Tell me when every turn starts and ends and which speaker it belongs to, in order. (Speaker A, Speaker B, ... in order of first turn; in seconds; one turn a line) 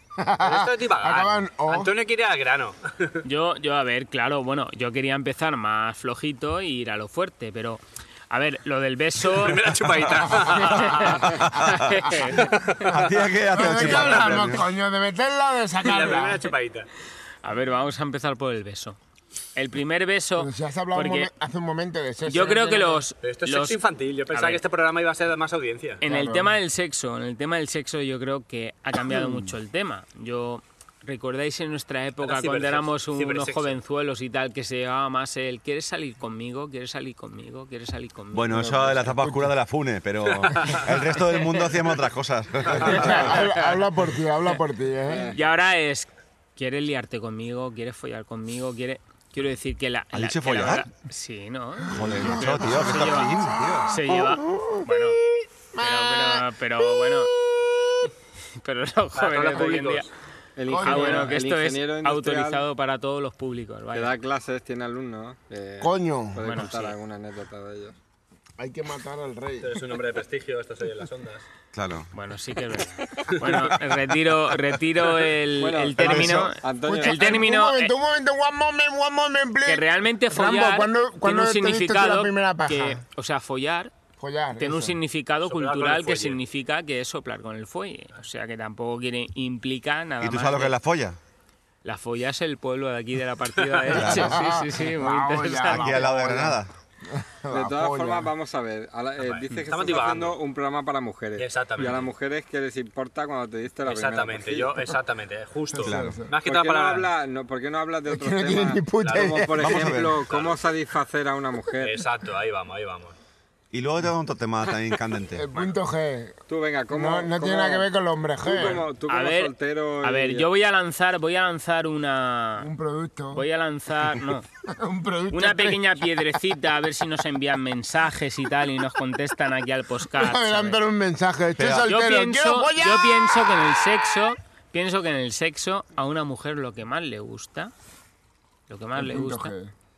Speaker A: 0.2-1.9
Speaker B: 0.4-3.2
Speaker C: 3.2-9.7
Speaker B: 9.2-11.3
Speaker C: 10.6-12.7
Speaker D: 11.2-12.2
Speaker B: 12.4-13.0
Speaker D: 12.8-14.6
Speaker A: 12.9-16.5
Speaker C: 13.6-14.0
Speaker B: 15.8-16.9
Speaker C: 17.4-19.0
Speaker C: 19.5-21.3
Speaker A: 20.4-23.0
Speaker C: 22.2-23.8
Speaker B: 23.2-26.0
Speaker C: 24.3-24.6
Speaker C: 26.0-39.2
Speaker A: 26.0-26.6
Speaker A: 29.1-29.4
Speaker B: 32.2-33.8
Speaker D: 38.3-43.3
Speaker A: 39.2-39.5
Speaker B: 40.3-40.9
Speaker A: 42.7-45.3
Speaker C: 43.0-43.8
Speaker E: 45.1-45.4
Speaker C: 45.3-53.4
Speaker D: 50.1-50.9
Speaker D: 51.9-54.0
Speaker A: 51.9-58.1
Speaker C: 53.9-55.2
Speaker C: 55.8-57.3
Speaker C: 58.6-60.1
Speaker B: 59.1-60.1
Speaker E: 60.5-62.6
Speaker A: 60.7-61.3
Speaker C: 60.8-64.1
Speaker E: 63.9-68.0
Speaker A: 65.8-66.4
Speaker C: 66.4-66.9
Speaker A: 68.6-69.8
Speaker B: 69.6-71.4
Speaker D: 71.7-72.1
Speaker C: 72.1-77.9
Speaker E: 75.5-77.4
Speaker D: 76.0-76.5
Speaker A: 76.8-83.0
Speaker C: 79.7-83.9
Speaker A: 84.2-85.0
Speaker C: 84.5-90.7
Speaker B: 85.4-86.4
Speaker D: 90.2-91.2
Speaker C: 91.8-96.1
Speaker A: 93.9-98.3
Speaker D: 93.9-94.4
Speaker D: 95.7-96.7
Speaker E: 97.5-104.8
Speaker B: 99.2-100.4
Speaker B: 101.4-102.1
Speaker B: 103.8-107.1
Speaker A: 105.7-106.3
Speaker D: 105.8-106.2
Speaker E: 106.4-112.0
Speaker A: 108.1-109.9
Speaker B: 109.0-109.5
Speaker D: 109.6-110.2
Speaker B: 110.3-110.6
Speaker B: 111.8-113.1
Speaker D: 113.7-115.4
Speaker A: 115.3-116.4
Speaker E: 116.5-117.9
Speaker A: 116.9-118.8
Speaker E: 118.4-120.5
Speaker C: 119.1-122.7
Speaker A: 122.6-123.4
Speaker C: 123.3-124.5
Speaker A: 124.6-126.1
Speaker C: 125.3-130.8
Speaker A: 130.1-133.8
Speaker D: 131.6-131.9
Speaker C: 131.8-137.7
Speaker C: 138.7-139.5
Speaker A: 138.9-139.7